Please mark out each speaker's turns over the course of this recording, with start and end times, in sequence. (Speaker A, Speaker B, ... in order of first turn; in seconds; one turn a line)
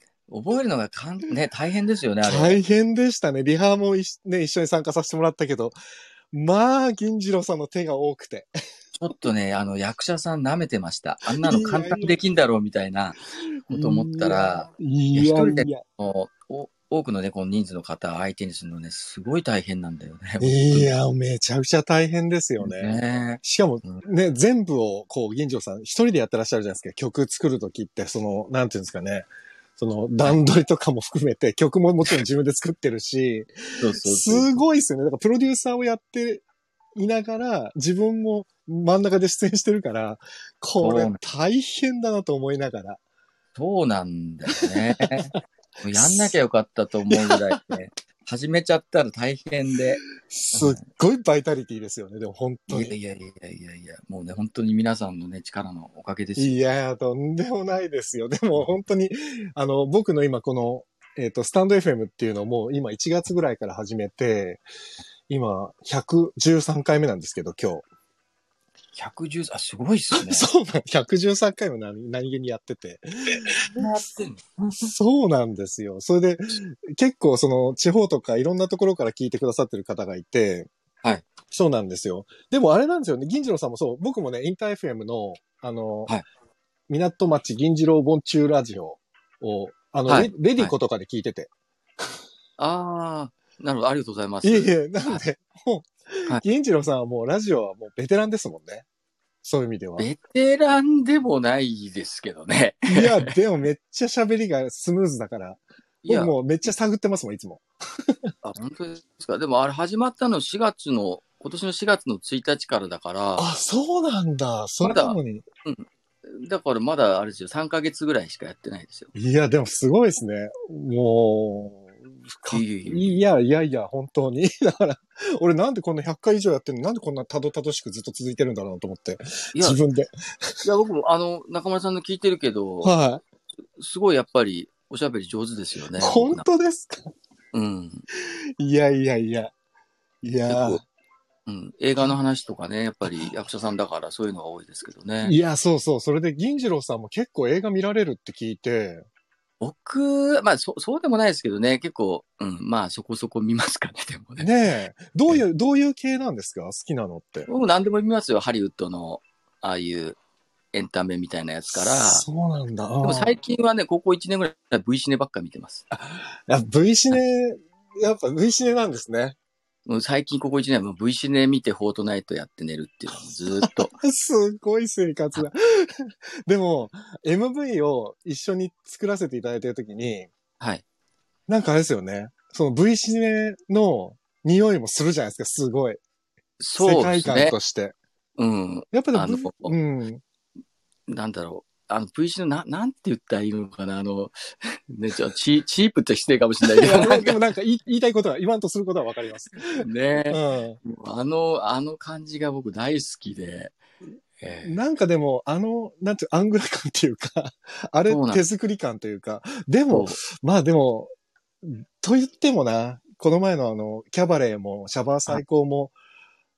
Speaker A: 0.3-2.6
Speaker B: 2.2-5.8
Speaker B: 6.3-8.5
Speaker A: 9.0-20.9
Speaker B: 11.2-12.2
Speaker B: 13.7-15.8
Speaker B: 20.4-36.4
Speaker A: 22.6-24.0
Speaker A: 33.8-34.6
Speaker B: 37.0-43.0
Speaker A: 40.8-41.2
Speaker A: 43.5-50.0
Speaker B: 44.5-45.3
Speaker B: 45.9-46.3
Speaker B: 47.1-47.7
Speaker B: 50.2-52.9
Speaker A: 50.5-50.8
Speaker A: 52.7-56.6
Speaker B: 56.4-64.6
Speaker B: 65.3-67.8
Speaker A: 69.0-70.5
Speaker B: 70.1-73.8
Speaker A: 73.4-74.9
Speaker B: 74.8-80.7
Speaker B: 81.5-86.1
Speaker B: 86.9-91.5
Speaker A: 90.1-90.7
Speaker A: 92.6-95.2
Speaker B: 94.4-98.8
Speaker B: 99.4-100.1
Speaker A: 100.0-103.3
Speaker B: 102.9-108.3
Speaker A: 106.0-106.3
Speaker A: 108.4-113.5
Speaker B: 113.4-115.4
Speaker A: 114.8-119.1
Speaker B: 119.1-130.5
Speaker A: 122.5-123.2
Speaker A: 129.5-129.8
Speaker A: 130.6-132.9
Speaker B: 132.8-133.2
Speaker A: 133.8-136.4
Speaker B: 136.0-137.1
Speaker A: 137.5-138.1
Speaker B: 138.2-139.5
Speaker B: 140.2-140.8
Speaker A: 140.5-140.8
Speaker A: 141.4-145.3
Speaker B: 145.2-149.1
Speaker A: 149.6-154.5
Speaker B: 154.4-157.5
Speaker A: 157.4-160.2
Speaker A: 160.7-162.2
Speaker B: 161.7-163.3
Speaker A: 163.0-165.8
Speaker B: 165.9-169.4
Speaker A: 169.8-173.9
Speaker B: 173.6-180.3
Speaker B: 181.5-186.0
Speaker A: 186.6-187.5
Speaker B: 186.8-187.9
Speaker A: 188.4-189.7
Speaker B: 188.9-190.2
Speaker A: 191.1-197.4
Speaker B: 196.8-200.8
Speaker A: 199.8-203.8
Speaker A: 204.4-204.8
Speaker B: 204.6-215.9
Speaker A: 208.1-208.4
Speaker A: 209.9-210.2